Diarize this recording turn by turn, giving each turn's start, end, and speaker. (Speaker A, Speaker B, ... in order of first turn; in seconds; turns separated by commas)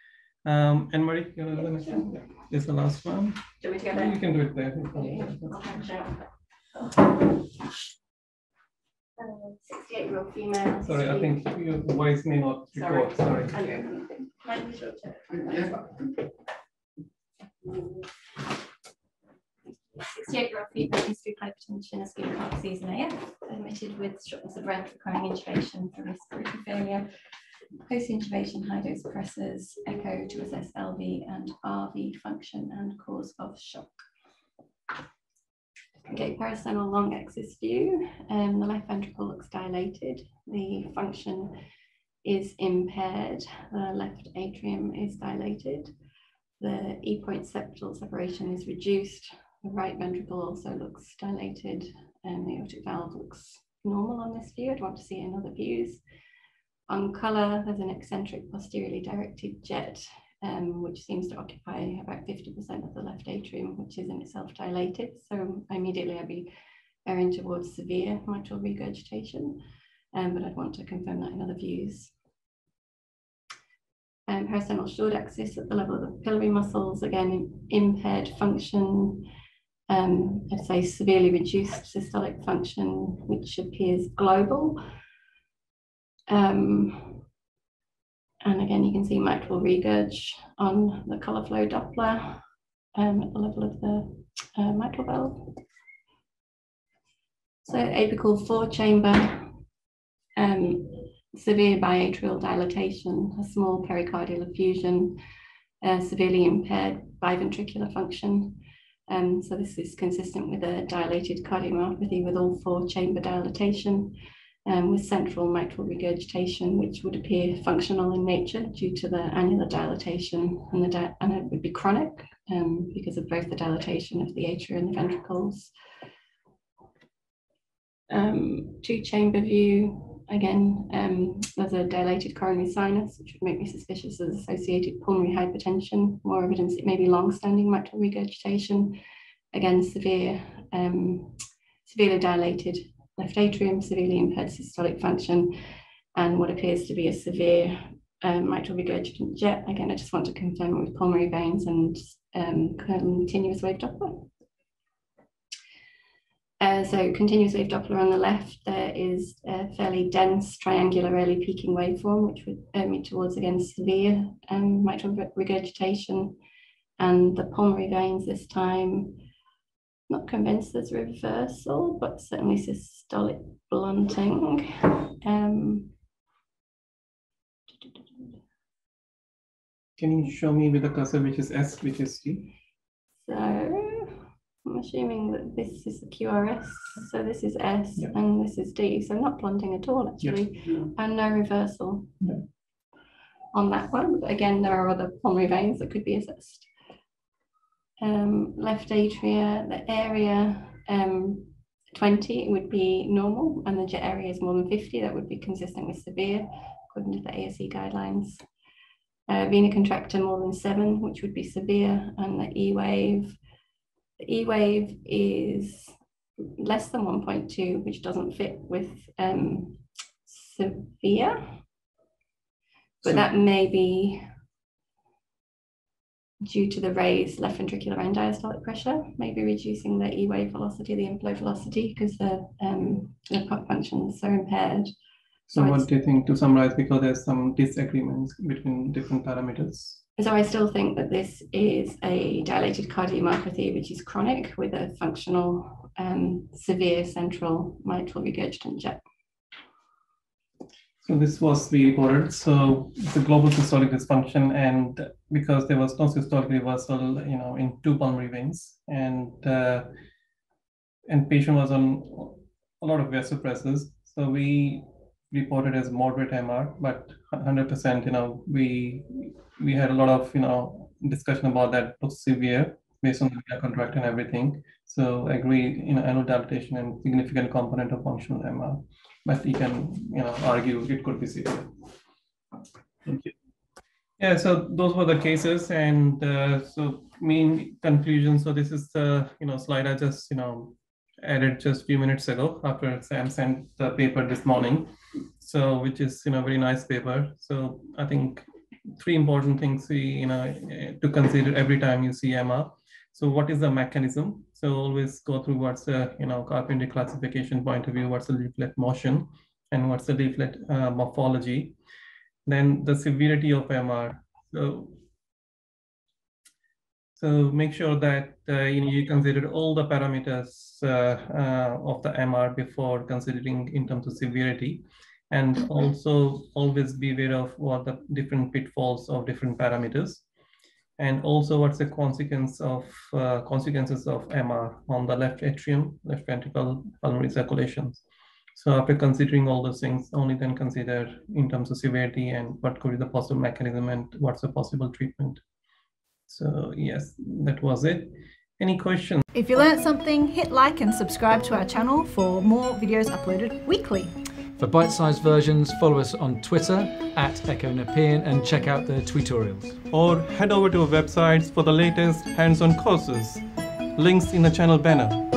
Speaker A: 0.4-5.8, Speaker B: 1.5-2.1, Speaker B: 3.6-4.2, Speaker B: 4.9-6.3, Speaker B: 6.8-7.1, Speaker B: 9.2-11.4, Speaker A: 10.8-13.6, Speaker B: 12.7-16.1, Speaker B: 17.6-18.0, Speaker B: 19.9-27.1, Speaker B: 27.9-34.0, Speaker B: 36.1-41.6, Speaker B: 42.2-45.9, Speaker B: 46.6-56.0, Speaker B: 56.9-66.5, Speaker B: 67.0-69.6, Speaker B: 70.1-72.1, Speaker B: 74.3-79.3, Speaker B: 79.9-84.8, Speaker B: 86.3-87.2, Speaker B: 88.4-92.4, Speaker B: 92.9-95.6, Speaker B: 97.6-99.5, Speaker B: 100.3-105.2, Speaker B: 105.8-125.7, Speaker B: 128.1-139.0, Speaker B: 139.5-145.5, Speaker B: 146.1-154.3, Speaker B: 156.6-166.4, Speaker B: 167.0-169.2, Speaker B: 170.1-175.9, Speaker B: 177.7-178.4, Speaker A: 180.0-182.5, Speaker B: 183.2-192.2, Speaker B: 193.5-196.7, Speaker B: 198.0-208.4, Speaker B: 209.3-213.4, Speaker B: 214.2-221.6, Speaker A: 223.0-223.3, Speaker B: 223.0-224.2, Speaker B: 226.4-234.9, Speaker A: 235.5-240.0, Speaker B: 235.6-235.9, Speaker B: 240.2-249.0, Speaker A: 251.0-259.9, Speaker A: 261.1-281.7, Speaker A: 283.0-283.3, Speaker A: 284.2-298.4, Speaker A: 299.0-311.7, Speaker A: 312.4-315.0, Speaker A: 317.2-330.2, Speaker A: 331.0-338.0, Speaker A: 338.6-345.4, Speaker A: 346.3-349.2, Speaker C: 349.3-354.1, Speaker D: 354.6-359.8, Speaker A: 359.9-363.4, Speaker A: 363.9-365.3